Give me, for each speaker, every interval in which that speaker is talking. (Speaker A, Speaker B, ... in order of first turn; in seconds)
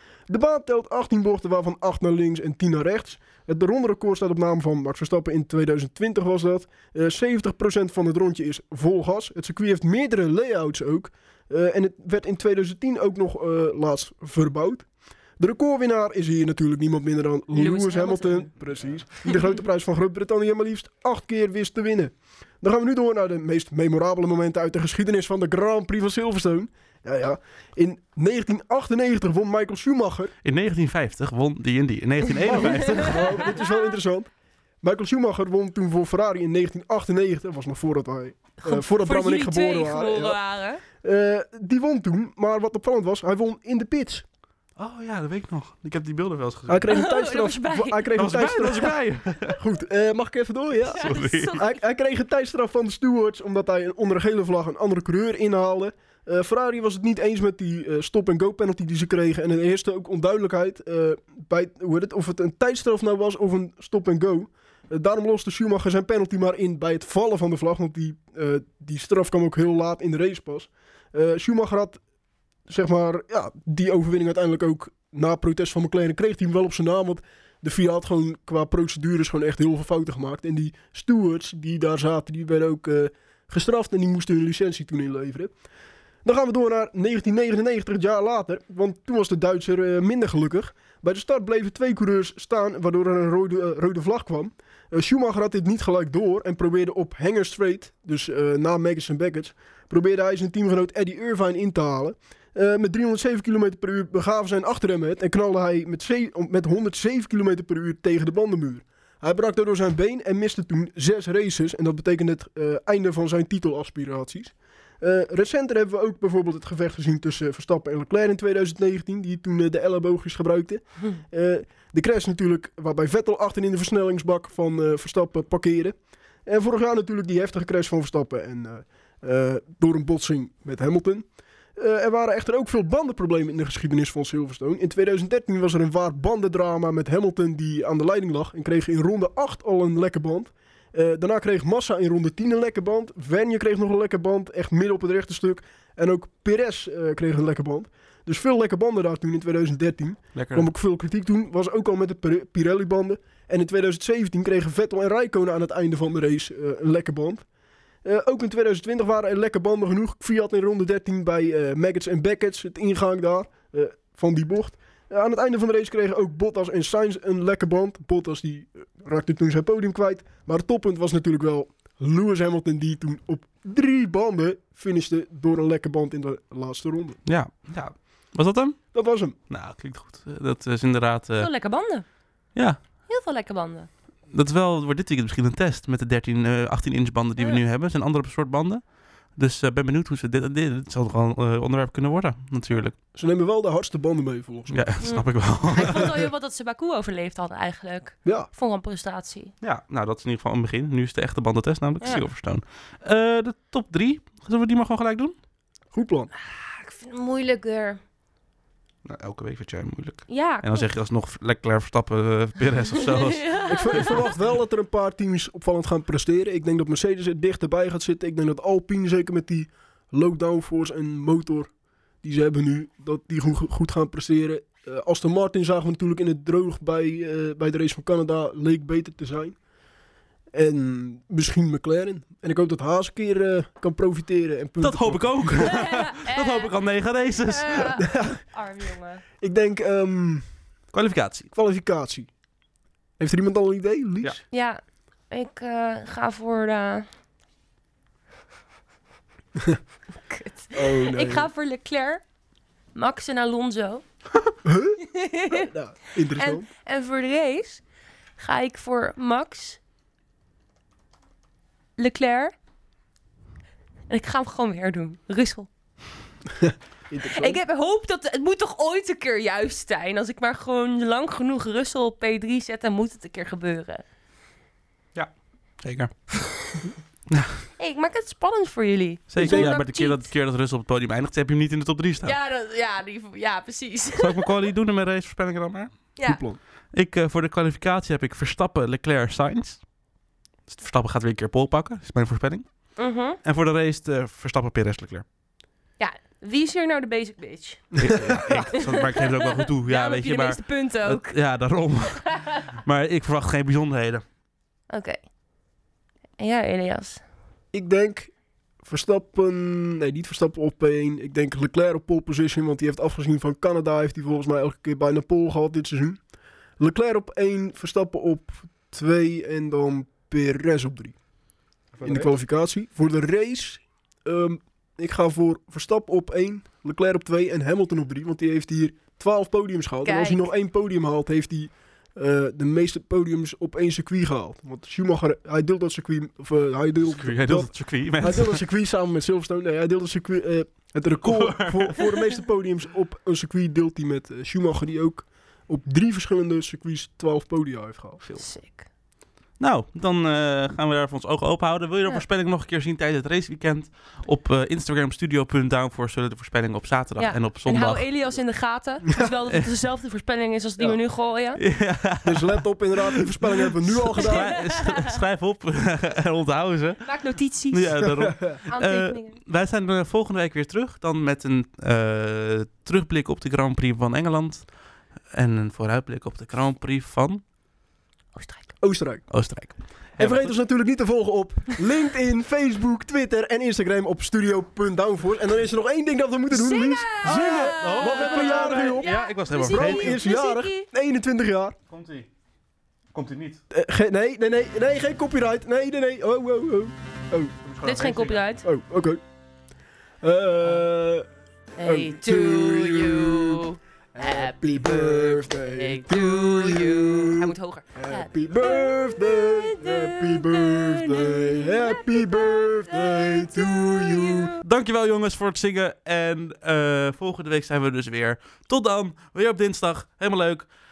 Speaker A: 0.3-14.9, 15.4-30.3, 32.4-34.3, 34.8-40.4, 41.0-44.2, 46.7-72.0, 72.7-85.5, 86.2-131.2, 131.8-157.4, 158.0-177.2, 178.9-179.3, 193.1-194.9, 198.2-198.5, 205.9-206.3, 213.6-221.7, 222.2-229.6, 230.5-235.7, 238.0-238.4, 239.4-240.4, 241.5-242.3, 243.2-244.4, 250.7-251.5, 254.6-256.6, 266.5-267.6, 279.4-279.7, 286.2-286.6, 307.7-308.3, 308.8-316.2, 316.8-321.1, 322.0-348.2, 362.2-364.5, 368.2-368.6, 378.8-379.3, 380.2-391.8, 393.7-397.8, 398.6-399.2, 400.2-401.2, 401.8-403.6, 404.1-414.5
Speaker B: 17.5-18.5, 33.5-33.8, 38.6-40.8, 46.9-48.1, 50.9-51.8, 181.4-182.0, 183.1-183.9, 195.0-199.5, 206.5-208.0, 210.3-210.9, 213.0-214.2, 235.6-236.7, 237.4-239.2, 244.5-247.1, 250.3-252.2, 252.9-254.0, 255.0-255.7, 256.3-257.8, 258.4-259.8, 262.0-262.5, 264.1-265.7, 267.2-274.0, 277.8-280.3, 282.2-284.5, 286.1-286.4, 292.9-293.4, 296.0-301.4, 302.1-302.7, 304.9-305.2, 306.4-307.2, 330.0-330.5, 348.4-348.8, 357.2-361.6, 364.1-365.2, 367.0-368.1, 368.7-369.4, 378.3-378.7, 386.5-390.9, 397.8-398.6, 401.8-414.6
Speaker C: 30.4-33.5, 44.8-46.9, 48.1-49.6, 51.0-51.6, 150.3-150.7, 177.2-178.9, 179.5-181.5, 182.5-182.8, 184.3-192.9, 194.7-196.1, 199.6-205.3, 209.0-214.2, 234.8-237.9, 240.9-241.5, 275.1-276.1, 277.3-277.6, 279.3-282.3, 284.2-286.1, 286.9-289.8, 290.7-292.9, 293.4-295.2, 298.0-302.3, 302.8-304.2, 337.0-338.6, 341.2-342.2, 349.6-358.1, 361.6-367.2, 367.7-374.7, 375.3-377.4, 379.3-380.6, 387.2-390.2, 391.9-392.3, 393.1-393.6, 397.7-398.4, 414.6-420.7